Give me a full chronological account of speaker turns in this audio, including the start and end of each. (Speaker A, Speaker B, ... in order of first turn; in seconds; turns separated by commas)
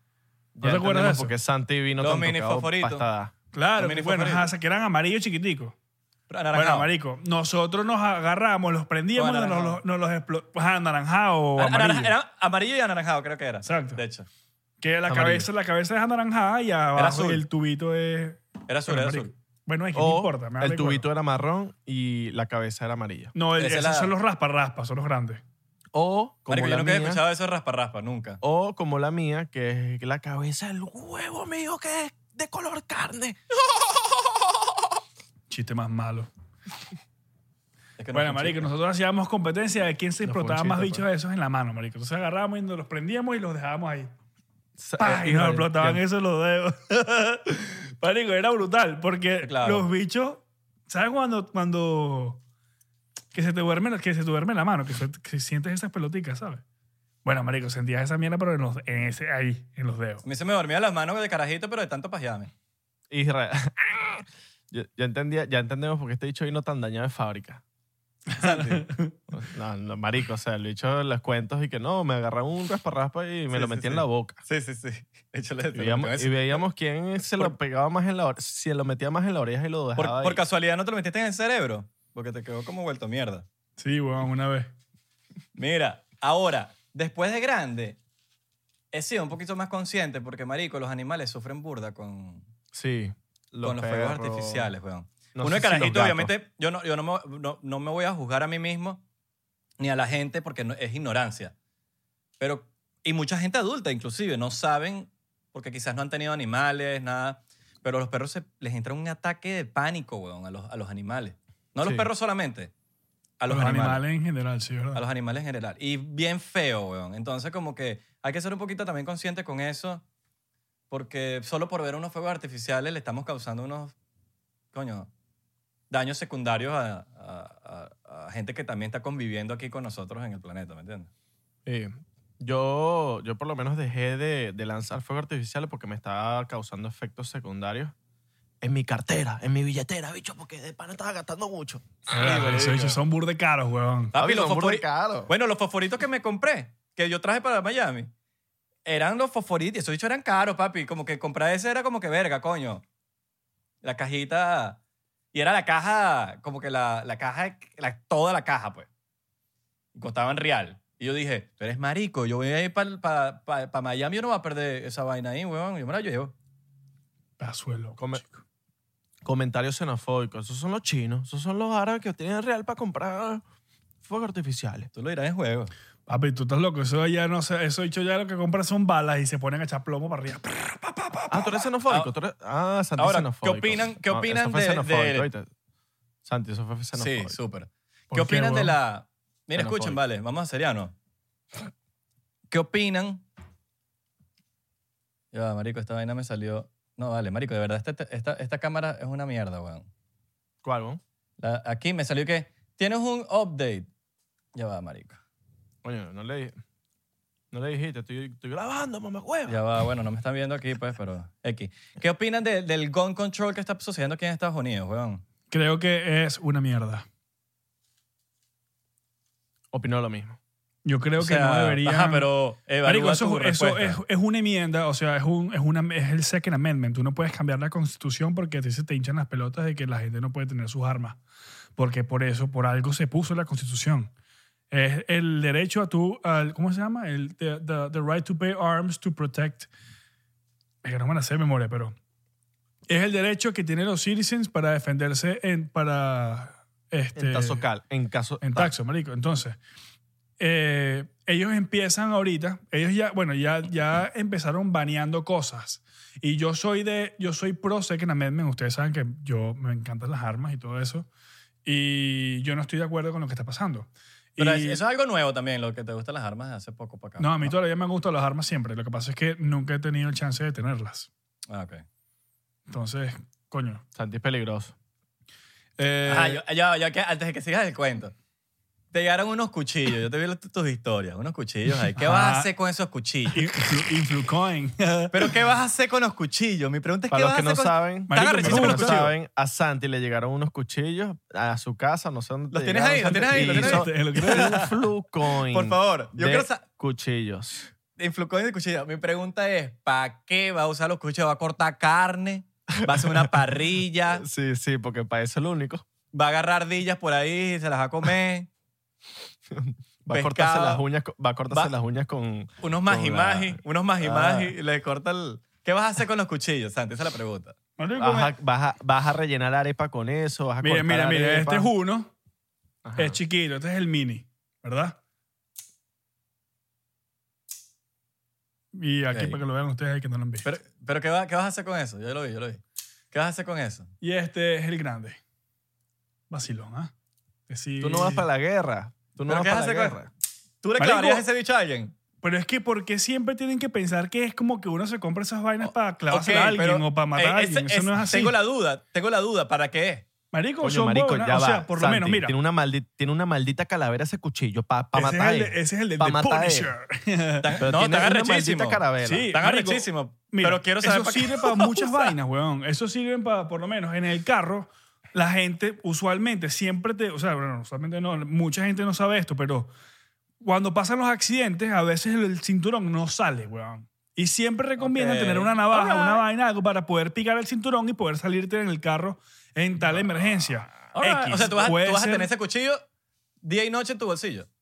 Speaker A: 0.6-3.3, Speaker B: 0.6-1.3, Speaker C: 2.0-3.0, Speaker B: 3.5-5.8, Speaker C: 3.8-4.5, Speaker C: 6.3-6.9, Speaker B: 6.5-12.1, Speaker C: 9.2-9.8, Speaker C: 11.6-14.3, Speaker B: 13.7-14.0, Speaker B: 14.8-21.1, Speaker A: 15.1-15.5, Speaker C: 17.0-17.4, Speaker C: 18.7-19.3, Speaker A: 19.9-23.3, Speaker B: 23.4-25.4, Speaker C: 23.6-24.1, Speaker A: 25.9-27.2, Speaker C: 26.5-28.4, Speaker A: 28.4-33.4, Speaker B: 35.5-36.3, Speaker C: 38.0-38.7, Speaker B: 38.1-44.1, Speaker A: 40.2-41.1, Speaker A: 44.8-46.0, Speaker B: 45.0-52.4, Speaker C: 49.4-49.9, Speaker B: 53.3-56.6, Speaker B: 57.2-60.2, Speaker C: 60.2-62.5, Speaker A: 63.1-67.6, Speaker B: 68.3-69.2, Speaker C: 68.4-68.9, Speaker A: 69.3-74.4, Speaker C: 73.5-76.6, Speaker A: 75.7-80.4, Speaker C: 80.0-83.5, Speaker B: 83.8-84.7, Speaker C: 85.6-88.0, Speaker C: 88.9-92.5, Speaker A: 92.7-94.7, Speaker C: 93.6-99.0, Speaker A: 95.3-96.3, Speaker C: 99.8-101.5, Speaker C: 102.4-112.7, Speaker A: 111.8-112.1, Speaker C: 113.4-114.0, Speaker B: 113.5-115.0, Speaker C: 115.0-120.0, Speaker C: 120.9-123.9, Speaker C: 124.7-125.1, Speaker C: 125.9-131.1, Speaker A: 131.7-137.9, Speaker A: 138.6-143.0, Speaker B: 142.1-144.1, Speaker C: 144.1-148.1, Speaker A: 144.2-145.3, Speaker C: 148.8-152.8, Speaker C: 153.8-154.8, Speaker C: 155.3-158.9, Speaker C: 159.9-166.3, Speaker B: 167.4-168.4, Speaker A: 168.0-168.2, Speaker A: 169.2-173.4, Speaker A: 174.0-174.9, Speaker C: 174.9-175.7, Speaker B: 176.1-181.5, Speaker A: 181.3-185.5, Speaker C: 183.0-185.3, Speaker A: 186.2-187.4, Speaker C: 187.0-190.9, Speaker B: 188.1-188.8, Speaker A: 189.6-190.0, Speaker C: 192.5-193.2, Speaker C: 195.3-199.9, Speaker A: 200.6-201.0, Speaker C: 201.4-203.9, Speaker C: 204.6-205.2, Speaker A: 205.8-206.6, Speaker A: 207.5-209.6, Speaker C: 209.5-215.2, Speaker B: 215.5-217.1, Speaker A: 219.7-220.4, Speaker B: 220.8-222.3, Speaker C: 221.2-224.0, Speaker B: 222.8-231.2, Speaker B: 231.8-234.1, Speaker B: 234.7-239.7, Speaker B: 240.8-242.0, Speaker B: 242.9-247.6, Speaker A: 247.2-248.7, Speaker B: 248.4-249.6, Speaker B: 250.4-261.1, Speaker B: 261.6-264.8, Speaker C: 264.4-267.5, Speaker B: 267.2-271.1, Speaker C: 271.5-271.8, Speaker B: 272.7-273.8, Speaker A: 273.9-274.8, Speaker B: 275.8-276.4, Speaker C: 276.1-278.1, Speaker C: 278.9-283.6, Speaker B: 281.9-282.5, Speaker B: 283.3-285.4, Speaker C: 285.1-289.1, Speaker A: 287.1-297.7, Speaker B: 288.1-289.1, Speaker C: 292.5-296.6, Speaker B: 293.1-294.6, Speaker C: 297.9-304.2, Speaker A: 302.8-303.4, Speaker A: 304.1-305.9, Speaker C: 306.1-308.5, Speaker A: 309.5-314.5, Speaker C: 310.1-310.8, Speaker C: 312.6-317.6, Speaker B: 317.8-318.4, Speaker A: 318.0-321.7, Speaker B: 320.6-322.1, Speaker A: 322.9-323.2, Speaker B: 323.0-325.0, Speaker B: 328.7-330.5, Speaker C: 329.1-329.4, Speaker C: 330.4-332.6, Speaker C: 333.1-333.9, Speaker B: 334.0-335.2, Speaker B: 336.3-336.9, Speaker B: 337.5-338.3, Speaker A: 337.8-340.1, Speaker C: 339.3-340.0, Speaker C: 340.6-341.9, Speaker B: 340.8-341.2, Speaker B: 342.2-348.4, Speaker C: 345.6-350.1, Speaker B: 350.3-352.4, Speaker A: 350.6-356.7, Speaker B: 354.9-357.6, Speaker C: 357.4-362.1, Speaker A: 357.6-359.3, Speaker B: 359.0-369.7, Speaker B: 370.4-382.3, Speaker C: 374.8-376.2, Speaker C: 380.9-382.8, Speaker C: 383.4-384.5